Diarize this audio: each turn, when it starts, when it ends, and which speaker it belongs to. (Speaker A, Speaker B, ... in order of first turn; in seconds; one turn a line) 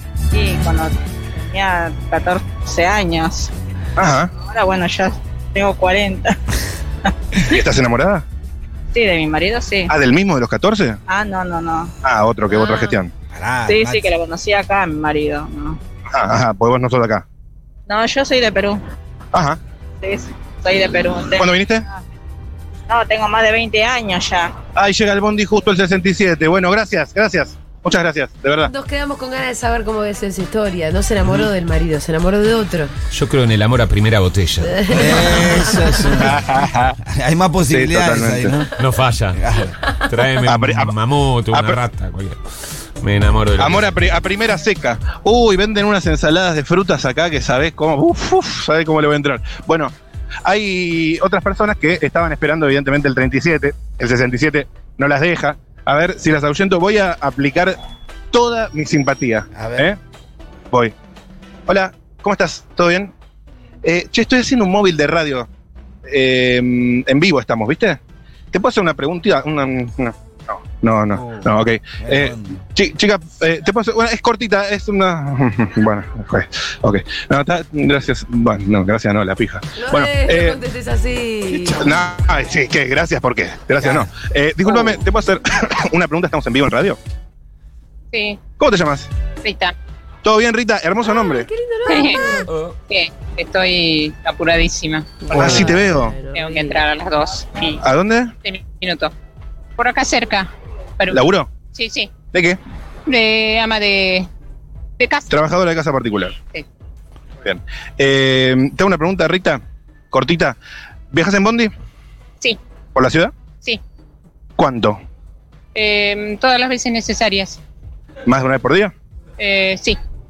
Speaker A: 0.3-3.5
Speaker B: 4.0-4.3
Speaker A: 4.4-6.4
Speaker B: 7.4-8.2
Speaker A: 8.9-9.9
Speaker B: 9.9-11.0
Speaker A: 11.1-11.9
Speaker B: 12.0-13.1
Speaker C: 12.5-13.0
Speaker D: 13.3-14.1
Speaker A: 13.7-15.8
Speaker B: 16.1-17.2
Speaker A: 17.9-18.8
Speaker B: 19.3-19.6
Speaker A: 20.0-21.5
Speaker B: 21.4-21.9
Speaker A: 22.9-24.6
Speaker B: 24.8-28.7
Speaker C: 28.7-32.9
Speaker E: 33.1-34.9
Speaker C: 34.7-35.8
Speaker D: 34.9-36.4
Speaker B: 36.2-37.0
Speaker D: 37.0-38.7
Speaker B: 37.7-38.6
Speaker E: 38.8-42.4
Speaker D: 39.4-39.7
Speaker B: 40.5-40.9
Speaker B: 41.5-41.8
Speaker E: 43.0-43.9
Speaker B: 43.6-49.9
Speaker B: 50.5-57.8
Speaker B: 58.3-60.0
Speaker D: 59.5-59.9
Speaker B: 61.7-63.1
Speaker B: 63.8-65.5
Speaker B: 66.1-68.0
Speaker B: 68.5-80.6
Speaker D: 71.1-72.6
Speaker C: 79.8-81.9
Speaker B: 81.8-87.0
Speaker D: 83.8-84.1
Speaker F: 88.1-88.4
Speaker B: 88.6-89.1
Speaker F: 89.4-89.8
Speaker B: 90.2-91.5
Speaker C: 91.0-92.5
Speaker F: 91.9-92.4
Speaker E: 92.5-92.8
Speaker F: 92.9-95.7
Speaker C: 95.2-96.8
Speaker B: 95.3-96.2
Speaker F: 96.3-97.8
Speaker B: 97.8-98.3
Speaker F: 98.4-99.1
Speaker F: 99.8-102.2
Speaker B: 101.1-101.5
Speaker B: 102.3-102.6
Speaker F: 103.1-104.3
Speaker F: 105.0-105.3
Speaker B: 105.3-106.4
Speaker B: 107.4-110.6
Speaker B: 111.1-111.7
Speaker B: 113.0-113.3
Speaker B: 114.6-115.0
Speaker F: 115.8-117.6
Speaker B: 118.3-118.9
Speaker F: 119.4-120.0